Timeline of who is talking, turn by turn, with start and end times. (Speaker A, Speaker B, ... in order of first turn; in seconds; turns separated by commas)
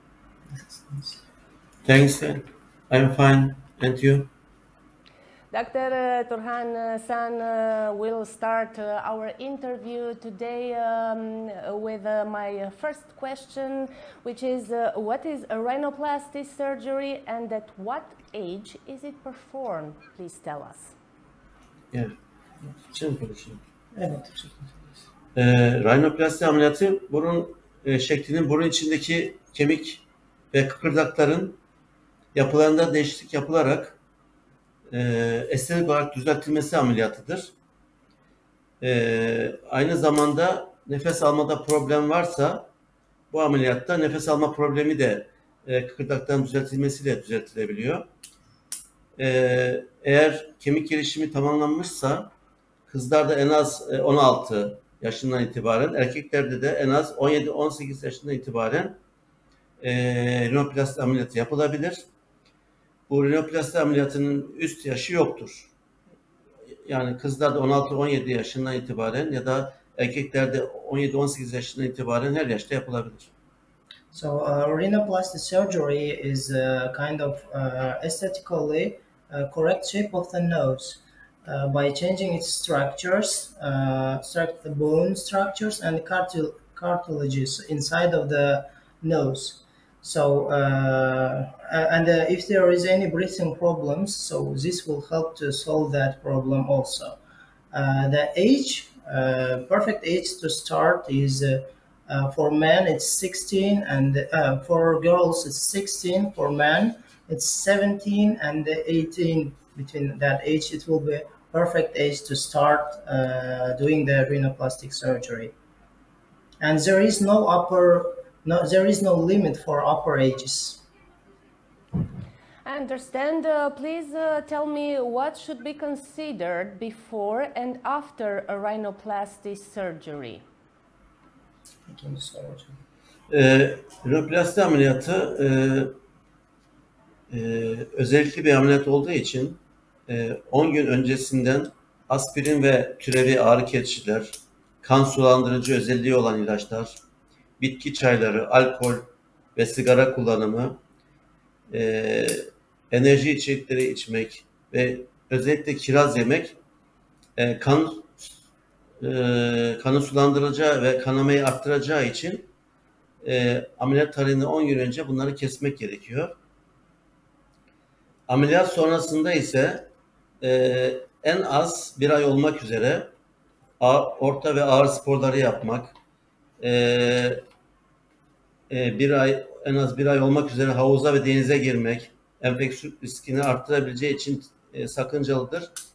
Speaker A: 0.6-1.2, Speaker B: 1.9-4.3, Speaker C: 5.5-20.9, Speaker B: 22.9-23.6, Speaker A: 23.9-25.0, Speaker B: 25.3-31.6, Speaker B: 32.3-34.0, Speaker B: 34.9-37.5, Speaker B: 38.8-42.7, Speaker B: 43.3-48.0, Speaker B: 49.2-52.3, Speaker B: 52.9-59.0, Speaker B: 59.8-62.0, Speaker B: 63.1-65.7, Speaker B: 66.8-73.3, Speaker A: 74.1-97.2, Speaker A: 97.7-115.5, Speaker A: 116.6-120.8, Speaker C: 122.6-130.4, Speaker A: 131.9-132.7, Speaker B: 133.3-135.9, Speaker B: 137.3-147.0, Speaker B: 147.6-150.8, Speaker B: 151.7-156.6, Speaker B: 157.3-158.1, Speaker B: 159.0-162.5, Speaker B: 163.2-166.3, Speaker B: 168.3-169.9, Speaker B: 170.4-173.1, Speaker B: 173.8-175.9, Speaker B: 176.6-177.4, Speaker B: 178.7-185.7